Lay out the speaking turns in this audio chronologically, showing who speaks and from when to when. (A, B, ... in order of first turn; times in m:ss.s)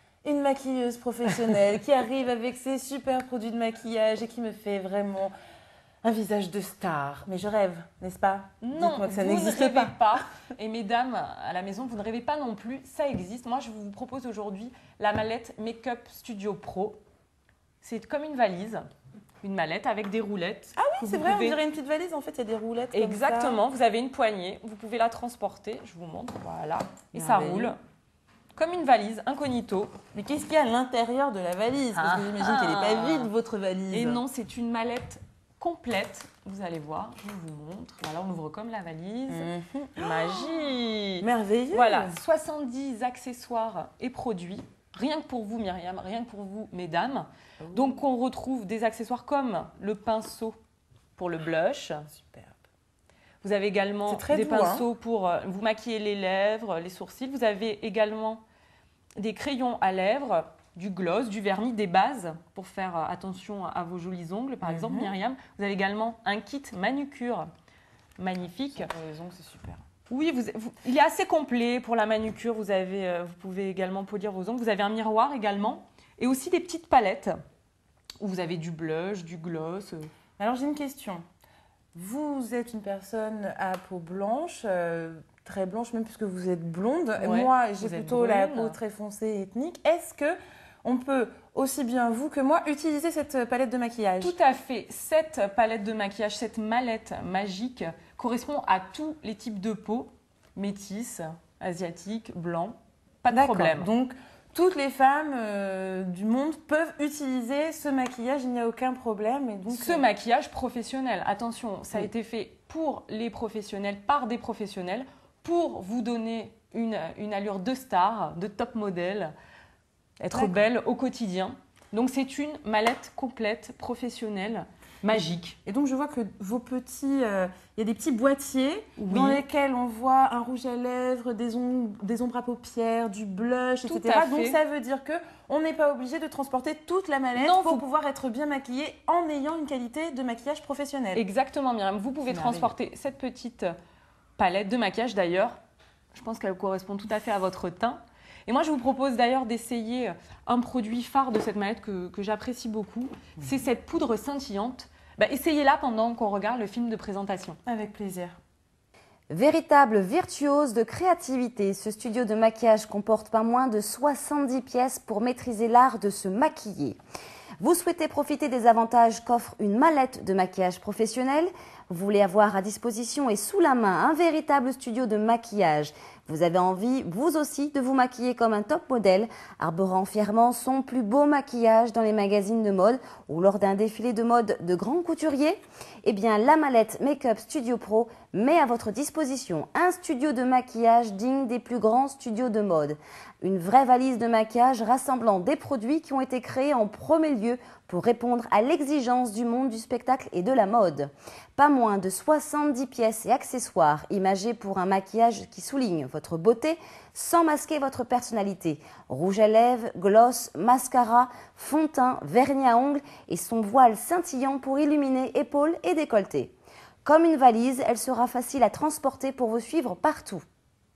0:00.2-0:05.3 A
0:06.0-0:10.0 A
0:08.6-0:17.0 B
0:17.8-0:18.8 B
0:19.4-0:21.6 B
0:20.8-0:23.6 A
0:22.9-0:27.8 B
0:27.1-0:27.8 A
0:28.6-0:30.0 B
0:30.1-0:34.2 A
0:32.0-0:33.3 B
0:33.9-0:50.6 B
0:39.3-0:40.6 A
0:41.2-0:42.2 A
0:47.6-0:48.0 A
0:51.2-0:52.1 B
0:52.1-0:52.6 A
0:53.4-0:58.4 B
0:54.1-0:54.8 A
0:59.2-1:07.5 B
1:04.6-1:05.1 A
1:08.2-1:08.9 B
1:08.7-1:09.8 A
1:10.1-1:17.4 B
1:18.2-1:20.1 B
1:20.4-1:21.2 A
1:22.0-1:34.4 A
1:27.2-1:28.8 B
1:34.2-1:43.9 B
1:43.3-1:50.1 A
1:49.7-1:59.3 B
2:00.2-2:05.6 B
2:00.3-2:00.6 A
2:05.7-2:21.2 A
2:09.0-2:09.4 B
2:13.9-2:14.6 B
2:17.4-2:17.8 B
2:21.2-2:23.7 B
2:22.3-2:22.7 A
2:24.4-2:25.6 B
2:26.1-2:37.6 B
2:37.7-2:38.4 A
2:39.3-2:47.0 C
2:47.6-3:36.5 C
3:37.0-3:40.4 C